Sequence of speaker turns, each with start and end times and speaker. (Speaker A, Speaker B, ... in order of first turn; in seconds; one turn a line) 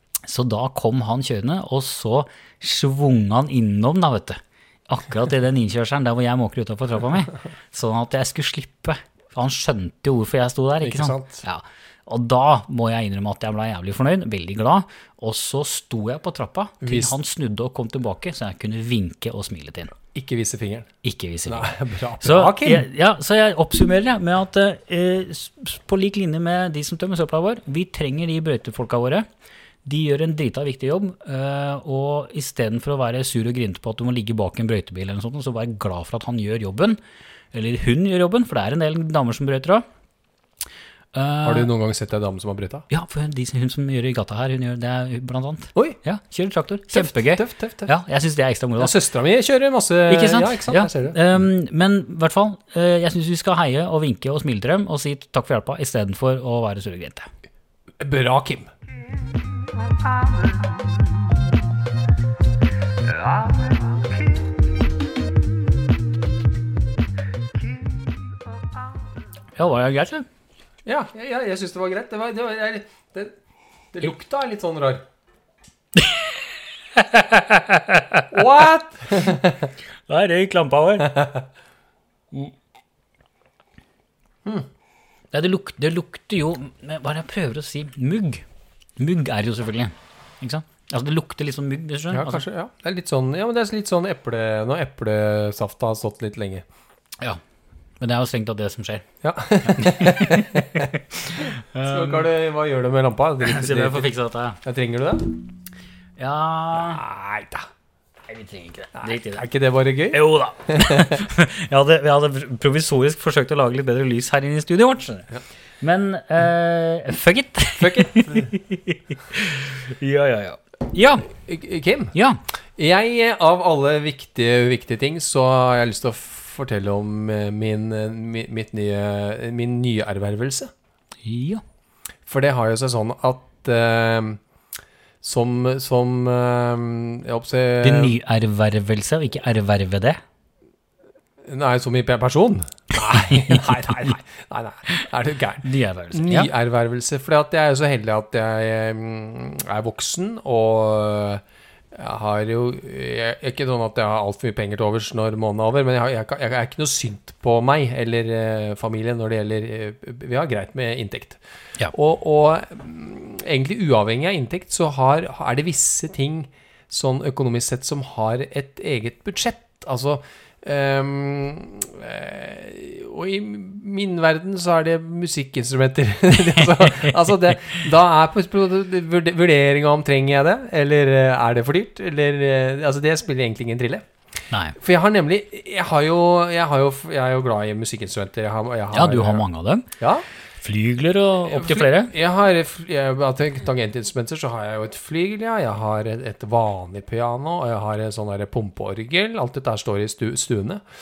Speaker A: 0.2-19.9
Speaker B: 10.8-11.4
Speaker B: 16.8-17.1
Speaker B: 20.1-20.9
Speaker A: 21.0-29.2
Speaker B: 21.5-22.9
Speaker A: 29.8-37.0
Speaker A: 37.5-39.8
Speaker A: 41.1-41.7
Speaker B: 41.4-42.9
Speaker A: 42.9-48.9
Speaker B: 46.9-47.9
Speaker B: 48.8-51.2
Speaker A: 50.1-57.3
Speaker B: 58.0-58.7
Speaker A: 69.6-70.2
Speaker B: 70.8-73.3
Speaker B: 73.9-75.0
Speaker A: 76.0-76.3
Speaker A: 76.9-78.3
Speaker B: 78.3-79.7
Speaker A: 80.1-81.1
Speaker B: 81.0-81.4
Speaker A: 85.3-88.4
Speaker A: 89.0-92.4
Speaker B: 92.1-96.7
Speaker A: 98.0-99.0
Speaker B: 99.2-104.1
Speaker A: 99.7-102.3
Speaker A: 103.4-104.6
Speaker B: 104.6-105.3
Speaker A: 106.2-107.0
Speaker B: 106.7-107.7
Speaker A: 108.3-109.5
Speaker B: 109.0-111.2
Speaker A: 110.1-115.3
Speaker A: 115.8-121.3
Speaker B: 117.8-118.5
Speaker B: 121.3-122.1
Speaker A: 122.1-122.4
Speaker B: 122.8-130.7
Speaker A: 131.2-131.6
Speaker B: 132.3-134.4
Speaker B: 135.2-138.1
Speaker A: 137.8-140.2
Speaker B: 141.4-184.1
Speaker A: 143.1-143.6
Speaker A: 145.6-146.5
Speaker A: 176.3-177.8
Speaker A: 184.5-184.8
Speaker B: 184.8-189.4
Speaker A: 188.9-189.9
Speaker B: 190.0-190.2
Speaker A: 190.6-192.1
Speaker B: 191.5-200.8